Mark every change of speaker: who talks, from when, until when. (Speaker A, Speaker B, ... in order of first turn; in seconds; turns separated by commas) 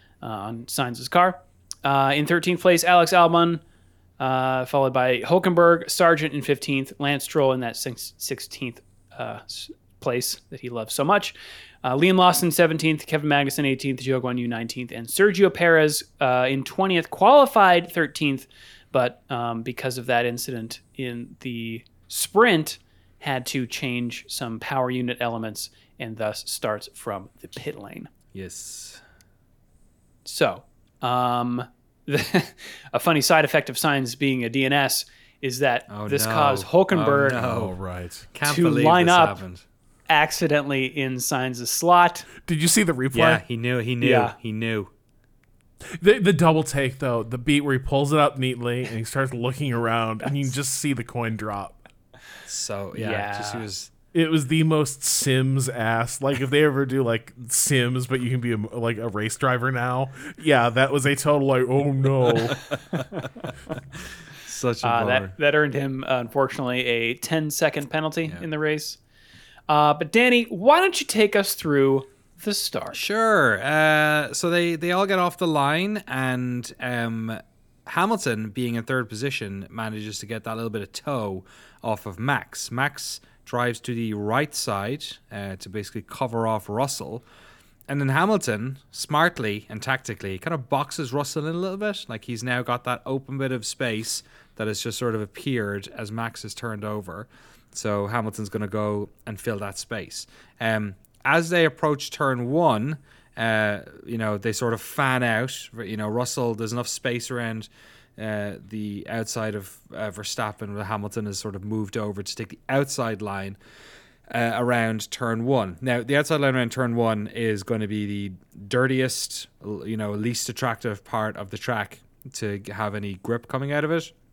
Speaker A: 0.2-3.6, Speaker A: 4.2-28.1, Speaker B: 28.3-29.0, Speaker A: 30.2-37.5, Speaker B: 35.9-37.8, Speaker C: 37.3-38.3, Speaker B: 38.3-39.6, Speaker A: 38.4-39.4, Speaker A: 40.1-42.3, Speaker C: 42.4-43.4, Speaker B: 43.1-44.9, Speaker A: 44.0-44.3, Speaker C: 45.9-51.8, Speaker B: 52.5-53.9, Speaker A: 53.0-53.7, Speaker C: 54.1-62.6, Speaker B: 62.5-65.3, Speaker A: 64.8-69.0, Speaker A: 69.7-73.0, Speaker B: 72.9-87.2, Speaker B: 87.9-113.6, Speaker B: 114.3-124.1